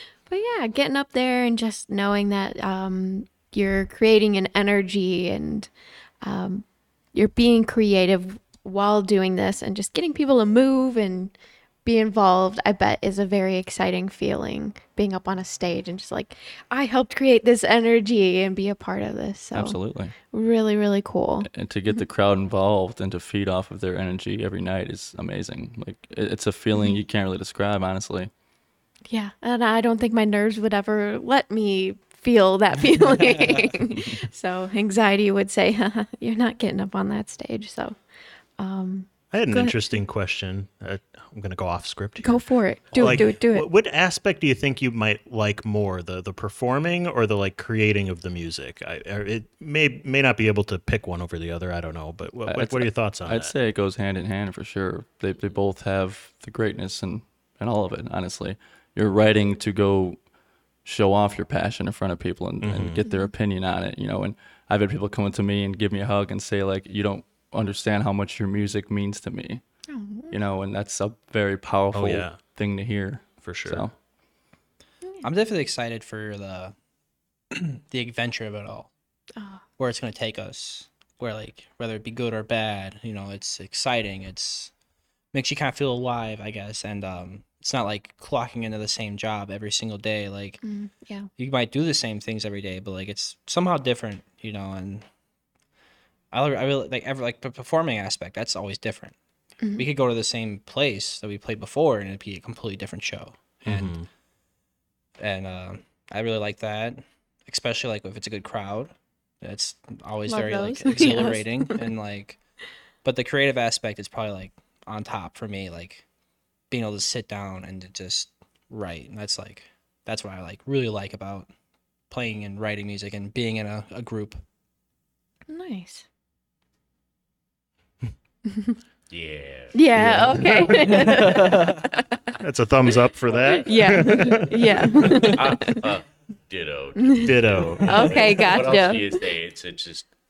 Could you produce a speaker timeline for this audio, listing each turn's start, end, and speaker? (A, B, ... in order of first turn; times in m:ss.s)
0:00.3-0:22.0 A
0:19.5-0:20.1 B
0:21.4-0:28.3 B
0:29.1-0:38.0 A
0:33.9-0:34.2 B
0:38.6-0:40.0 A
0:39.3-0:53.5 C
0:42.2-0:43.7 A
0:43.0-0:43.2 D
0:52.5-1:00.3 B
1:00.8-1:09.6 B
1:02.6-1:03.1 C
1:09.9-1:10.4 A
1:10.3-1:13.9 B
1:11.9-1:12.4 C
1:13.4-1:13.8 C
1:15.2-1:16.8 D
1:17.5-1:18.9 D
1:19.4-1:19.6 A
1:19.8-1:24.7 D
1:25.3-1:30.7 D
1:30.6-1:31.3 A
1:31.4-1:35.1 D
1:36.3-1:39.2 D
1:39.8-1:44.0 D
1:43.7-1:44.1 C
1:45.2-1:52.4 D
1:50.3-1:51.9 A
1:53.0-1:56.0 D
1:56.7-2:01.5 D
2:02.1-2:04.4 D
2:05.5-2:06.0 A
2:09.1-2:09.8 E
2:09.7-2:12.2 A
2:10.0-2:11.0 C
2:10.8-2:11.8 D
2:12.4-2:15.1 C
2:13.4-2:14.2 E
2:13.6-2:15.8 A
2:14.8-2:20.1 E
2:17.0-2:19.2 A
2:17.2-2:18.4 C